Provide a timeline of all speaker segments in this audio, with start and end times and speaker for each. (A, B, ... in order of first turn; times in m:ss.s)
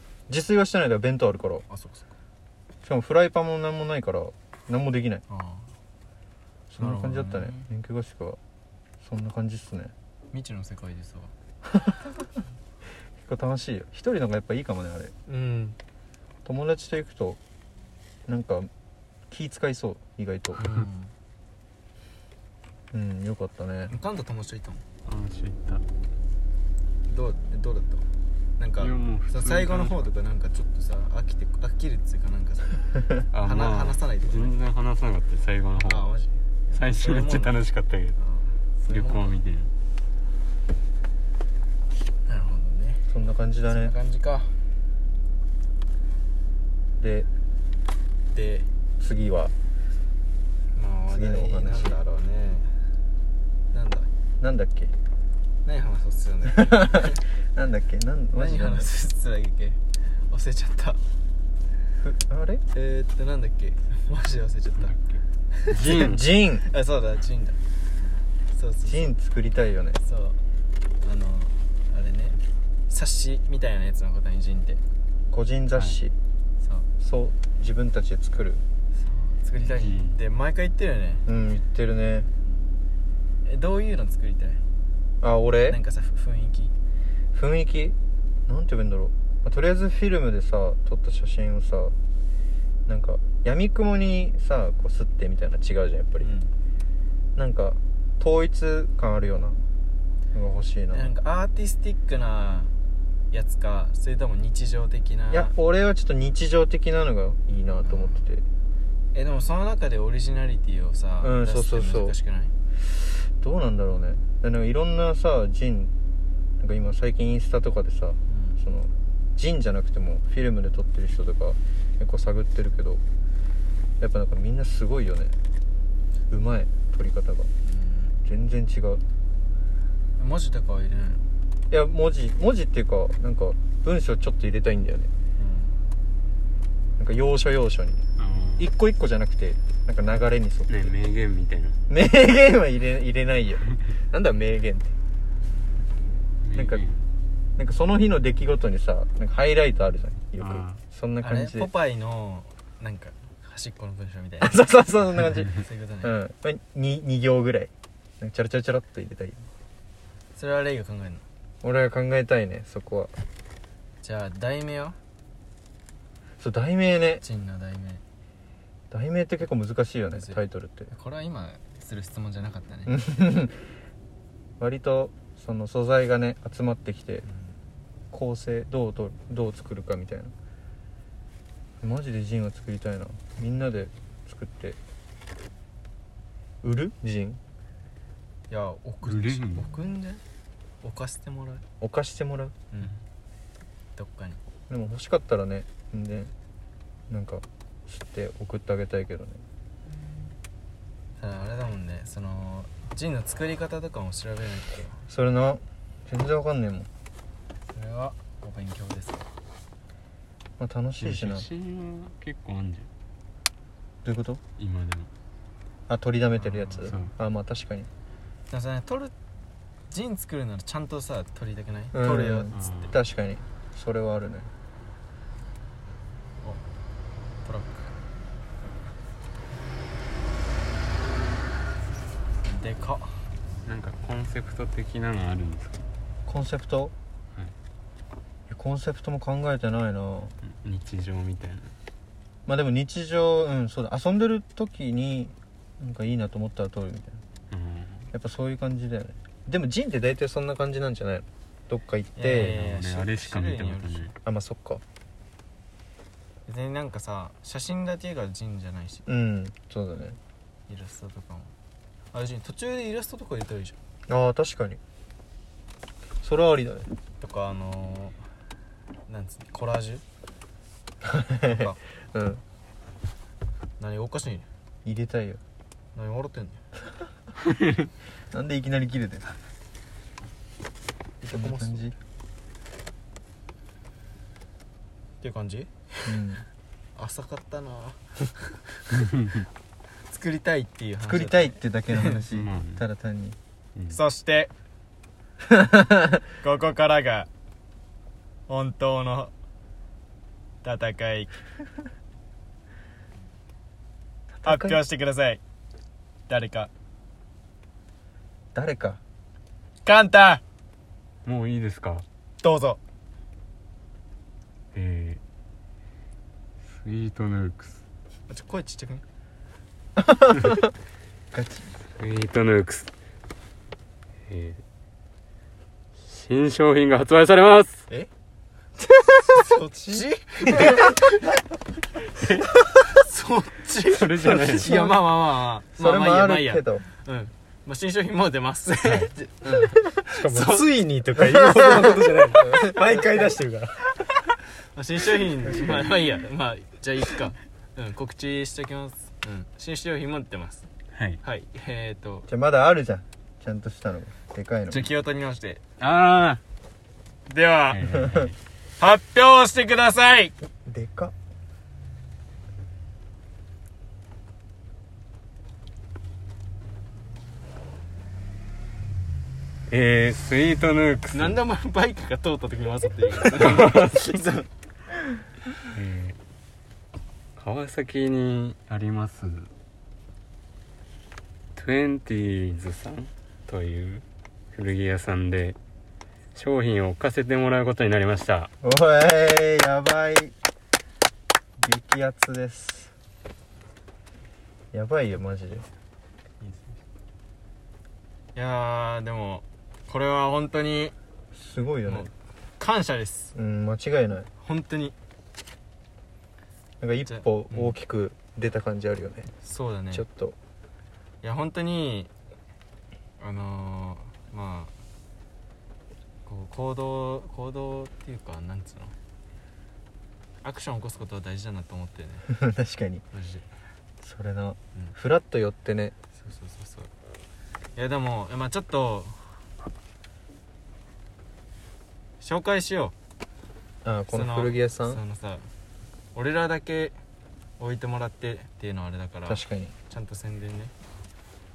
0:00.3-0:01.6 A
0:01.7-0:02.1 B
0:02.8-0:05.2 A
0:05.3-0:05.7 B
0:06.7-0:08.4 A
0:06.8-0:07.7 B
0:09.0-0:09.9 A
0:10.3-0:11.3 B
0:11.7-0:12.1 A
0:13.2-0:15.1 A
0:15.3-0:15.7 C
0:16.4-0:17.4 A
0:18.3-0:18.7 A
0:19.3-0:20.6 A
0:20.5-0:21.1 B
0:22.9-0:23.9 A
0:23.9-0:24.8 B
0:25.0-0:25.8 D
0:27.1-0:34.6 B
0:28.8-0:30.1 D
0:33.3-0:36.1 D
0:35.7-0:37.6 B
0:36.7-0:38.2 D
0:38.2-0:39.4 B
0:38.9-0:39.7 D
0:42.2-0:43.1 B
0:43.1-0:44.0 A
0:43.6-0:44.6 B
0:47.0-0:47.3 A
0:48.3-0:48.7 B
0:49.0-0:49.5 A
0:50.7-0:52.7 B
0:51.1-0:52.0 A
0:53.7-0:54.1 B
0:54.4-0:54.9 A
0:55.6-0:57.2 B
0:56.5-0:58.9 A
0:58.3-1:01.0 B
1:02.0-1:02.6 A
1:02.7-1:05.0 B
1:04.8-1:05.2 D
1:05.5-1:06.1 B
1:05.7-1:06.6 A
1:05.8-1:06.2 D
1:06.6-1:07.6 B
1:08.5-1:09.1 B
1:08.8-1:10.0 A
1:10.0-1:10.4 B
1:11.0-1:14.8 B
1:15.3-1:16.1 A
1:15.7-1:16.0 D
1:16.6-1:16.9 B
1:17.0-1:18.6 A
1:18.9-1:21.2 B
1:19.8-1:20.2 D
1:21.2-1:22.3 A
1:23.4-1:24.6 B
1:25.2-1:25.8 A
1:25.6-1:26.7 B
1:27.3-1:27.9 A
1:28.5-1:31.9 A
1:32.8-1:36.3 A
1:36.2-1:36.5 B
1:37.3-1:39.6 A
1:40.3-1:41.1 A
1:40.9-1:42.7 B
1:43.3-1:45.5 B
1:45.3-1:48.4 A
1:47.8-1:48.2 B
1:49.1-1:52.5 B
1:51.2-1:52.2 A
1:53.0-1:55.9 A
1:56.6-2:03.0 A
1:58.3-1:58.6 B
2:04.0-2:05.3 A
2:06.3-2:07.5 A
2:07.6-2:08.2 B
2:08.2-2:09.0 A
2:10.2-2:11.2 B
2:11.7-2:15.1 A
2:15.4-2:15.8 B
2:17.0-2:18.0 A
2:18.2-2:18.7 D
2:18.6-2:20.8 A
2:20.7-2:21.8 D
2:21.9-2:24.9 A
2:26.4-2:27.0 D
2:26.5-2:26.8 A
2:27.6-2:31.7 A
2:30.4-2:30.8 D
2:31.2-2:34.6 B
2:34.4-2:39.5 A
2:35.5-2:36.2 B
2:40.3-2:41.2 B
2:41.6-2:43.1 A
2:44.0-2:45.0 B
2:46.4-2:47.2 A
2:47.2-2:48.0 B
2:48.9-2:50.9 A
2:50.1-2:53.0 B
2:52.9-2:53.6 A
2:54.6-2:57.2 A
2:57.2-2:57.6 B
2:58.1-3:00.3 A
3:01.8-3:04.8 A
3:06.6-3:07.4 A
3:08.5-3:10.2 B
3:09.0-3:09.7 D
3:10.8-3:11.6 B
3:11.8-3:12.5 A
3:12.7-3:13.0 B
3:14.0-3:14.4 B
3:14.7-3:16.3 A
3:17.1-3:19.4 A
3:21.2-3:25.0 B
3:25.1-3:26.9 A
3:27.7-3:29.2 B
3:30.6-3:31.5 A
3:31.0-3:32.9 D
3:34.0-3:34.4 A
3:34.6-3:35.1 D
3:35.9-3:37.9 A
3:36.4-3:37.1 D
3:38.5-3:39.1 B
3:39.9-3:42.6 B
3:41.9-3:44.5 A
3:42.5-3:43.0 D
3:47.4-3:47.9 B
3:52.4-3:53.3 B
3:53.6-3:55.9 D
3:56.2-3:56.9 A
3:58.5-4:00.3 A
4:00.5-4:01.7 D
4:02.5-4:07.2 A
4:07.5-4:08.1 D
4:08.1-4:12.6 A
4:12.2-4:14.1 B
4:12.4-4:14.2 D
4:14.2-4:14.8 A
4:16.4-4:19.0 B
4:19.0-4:20.2 A
4:20.7-4:21.5 B
4:22.1-4:23.8 B
4:24.1-4:24.8 A
4:26.2-4:26.9 A
4:27.2-4:28.2 B
4:29.1-4:30.0 B
4:31.0-4:32.4 A
4:31.4-4:31.8 B
4:33.8-4:34.5 B
4:34.8-4:35.4 A
4:35.9-4:36.6 B
4:38.3-4:39.4 A
4:41.2-4:41.9 B
4:41.3-4:42.0 A
4:45.2-4:46.1 B
4:46.0-4:46.4 A
4:46.9-4:48.6 B
4:50.1-4:52.2 B
4:51.0-4:53.4 A
4:52.3-4:52.8 D
4:53.9-4:54.5 B
4:55.5-4:56.0 A
4:56.4-4:57.3 B
4:58.5-4:59.3 B
5:00.6-5:01.3 B
5:04.3-5:04.8 A
5:04.4-5:05.4 B
5:06.3-5:06.7 B
5:08.5-5:09.0 A
5:09.8-5:10.4 B
5:11.2-5:12.0 D
5:12.4-5:12.8 B
5:14.7-5:15.2 D
5:16.7-5:17.8 D
5:18.3-5:19.0 B
5:20.0-5:20.6 A
5:21.3-5:21.7 A
5:22.0-5:22.9 D
5:24.3-5:24.6 D
5:26.0-5:27.8 D
5:29.2-5:31.2 B
5:32.2-5:32.5 D
5:32.7-5:40.7 B
5:33.9-5:34.7 D
5:34.4-5:35.1 A
5:35.8-5:36.8 A
5:38.8-5:39.7 D
5:40.0-5:43.9 C
5:41.5-5:43.3 A
5:44.7-5:50.7 B
5:45.5-5:46.0 A
5:50.9-5:51.2 D
5:51.2-5:52.3 B
5:52.3-5:54.9 A
5:54.7-5:55.6 B
5:55.8-5:56.4 D
5:57.3-5:57.8 B
5:57.7-5:58.4 D
5:58.8-6:00.3 B
6:00.6-6:01.1 A
6:09.7-6:11.4 D
6:11.1-6:14.4 B
6:13.3-6:14.1 D
6:15.7-6:16.2 D
6:17.4-6:19.5 D
6:21.6-6:25.6 D
6:26.3-6:28.5 D
6:28.6-6:30.3 A
6:31.6-6:32.9 A
6:34.7-6:35.7 A
6:36.4-6:36.8 B
6:38.3-6:40.9 B
6:41.3-6:42.1 A
6:41.8-6:43.3 B
6:43.3-6:44.3 A
6:44.4-6:44.9 B
6:46.8-6:49.3 A
6:47.0-6:47.8 B
6:49.4-6:50.0 B
6:49.9-6:50.4 A
6:51.2-6:52.1 B
6:53.2-6:54.7 B
6:56.2-6:58.9 B
7:00.4-7:02.3 B
7:02.3-7:03.0 A
7:03.1-7:03.4 B
7:04.0-7:05.9 A
7:06.1-7:06.9 B
7:07.7-7:09.4 B
7:12.2-7:12.9 B
7:13.8-7:15.0 A
7:14.1-7:15.5 B
7:16.1-7:17.0 B
7:17.6-7:20.7 B
7:19.3-7:19.7 A